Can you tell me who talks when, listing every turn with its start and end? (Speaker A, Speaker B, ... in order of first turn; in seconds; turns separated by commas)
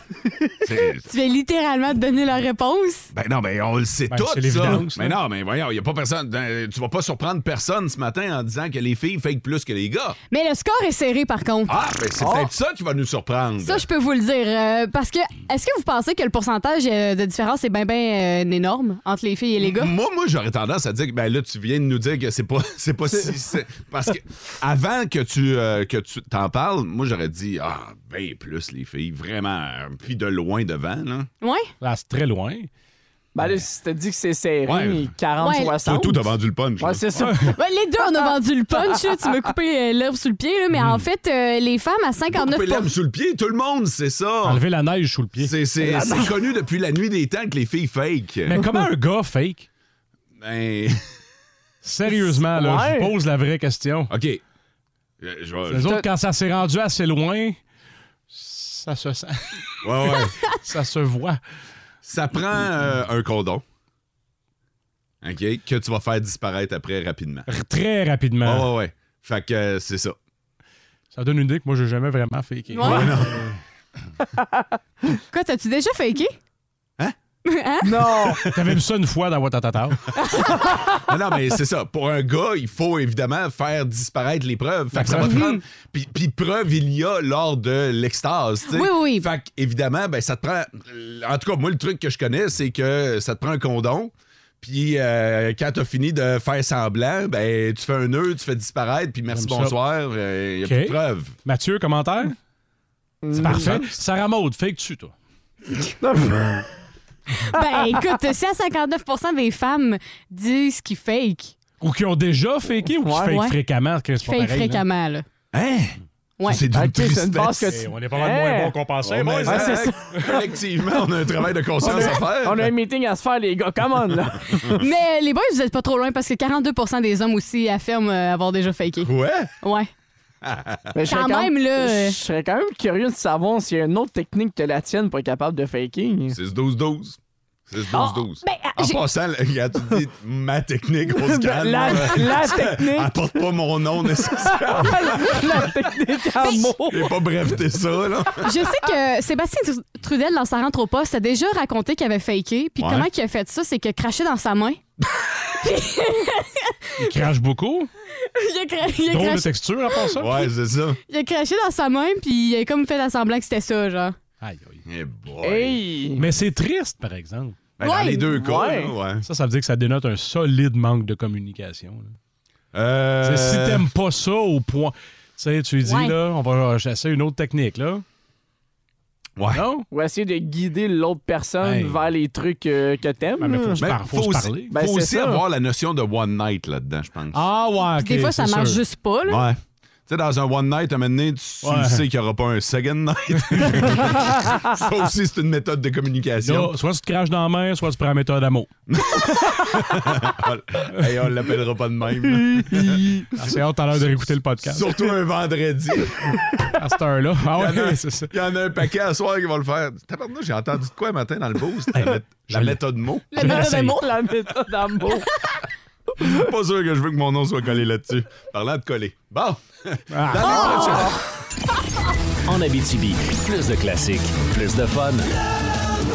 Speaker A: 0.6-1.0, Speaker B: 1.0-3.1, Speaker A: 3.1-10.2, Speaker C: 4.1-5.2, Speaker B: 10.3-11.8, Speaker A: 11.7-13.8, Speaker D: 12.2-12.5, Speaker B: 13.6-19.9, Speaker A: 19.6-31.3, Speaker B: 31.4-31.7, Speaker C: 31.8-32.7, Speaker D: 33.3-37.5, Speaker A: 34.6-35.1, Speaker B: 35.4-35.7, Speaker A: 35.8-37.0, Speaker C: 37.1-37.5, Speaker B: 37.4-42.9, Speaker A: 42.3-44.6, Speaker C: 44.4-45.5, Speaker A: 45.4-48.8, Speaker D: 45.8-46.3, Speaker C: 48.5-49.6, Speaker A: 50.4-51.0, Speaker C: 51.8-54.1, Speaker D: 52.1-53.1, Speaker A: 54.1-54.4, Speaker A: 55.2-56.0, Speaker C: 55.7-57.6, Speaker C: 58.3-61.4, Speaker A: 59.8-60.5, Speaker A: 62.0-63.6, Speaker A: 65.2-67.5, Speaker C: 67.5-68.7, Speaker A: 68.4-70.2, Speaker C: 71.1-73.3, Speaker B: 72.7-73.1, Speaker A: 72.8-73.6, Speaker B: 75.3-76.3, Speaker B: 77.4-77.9, Speaker D: 77.8-78.4, Speaker A: 78.2-78.7, Speaker C: 78.5-80.0, Speaker A: 80.8-101.4, Speaker C: 84.9-85.4, Speaker B: 85.3-85.6, Speaker B: 88.7-89.3, Speaker C: 99.3-99.8, Speaker C: 100.6-102.3, Speaker D: 103.2-103.8, Speaker C: 103.3-105.1, Speaker D: 106.0-106.6, Speaker B: 107.5-111.5, Speaker D: 107.6-108.2, Speaker C: 111.8-114.8, Speaker D: 113.0-113.3, Speaker B: 113.2-113.6, Speaker B: 114.2-115.2, Speaker A: 115.5-117.8, Speaker D: 116.7-120.3, Speaker C: 117.7-119.9, Speaker A: 119.0-122.7, Speaker D: 121.8-124.8, Speaker B: 124.8-129.9, Speaker A: 129.0-129.5, Speaker A: 130.4-130.9, Speaker D: 130.9-136.4, Speaker B: 131.1-132.2, Speaker A: 136.3-145.7, Speaker D: 137.9-138.2, Speaker B: 138.4-139.0, Speaker D: 141.1-143.1, Speaker D: 144.2-147.2, Speaker B: 146.4-146.7, Speaker A: 146.9-148.5, Speaker B: 148.4-154.8, Speaker A: 152.8-153.1, Speaker B: 155.6-156.8, Speaker C: 157.0-157.9, Speaker B: 158.2-160.2, Speaker C: 159.1-160.3, Speaker A: 160.2-161.0, Speaker B: 161.1-164.2, Speaker C: 164.4-164.8, Speaker A: 164.9-165.8, Speaker D: 165.4-166.3, Speaker C: 166.2-167.6, Speaker A: 167.8-169.3, Speaker B: 167.8-168.3, Speaker D: 168.4-168.9, Speaker C: 169.2-172.1, Speaker A: 172.7-173.9, Speaker C: 173.2-178.0, Speaker B: 175.8-176.2, Speaker A: 179.4-179.6, Speaker C: 179.5-179.8, Speaker D: 179.9-183.8, Speaker C: 181.6-182.0, Speaker C: 183.4-184.7, Speaker A: 183.8-187.4, Speaker D: 184.7-185.4, Speaker C: 187.3-188.8, Speaker B: 187.9-189.5, Speaker A: 189.2-196.7, Speaker C: 191.6-192.0, Speaker C: 193.5-193.9, Speaker C: 196.4-198.7, Speaker A: 198.9-206.7, Speaker D: 202.6-203.1, Speaker C: 203.3-205.1, Speaker C: 206.8-208.3, Speaker A: 207.5-213.3, Speaker C: 211.9-212.8, Speaker B: 213.3-214.0, Speaker C: 213.4-214.0, Speaker D: 213.4-215.3, Speaker A: 216.2-221.2, Speaker C: 220.1-221.0, Speaker B: 220.4-221.0, Speaker E: 222.4-225.3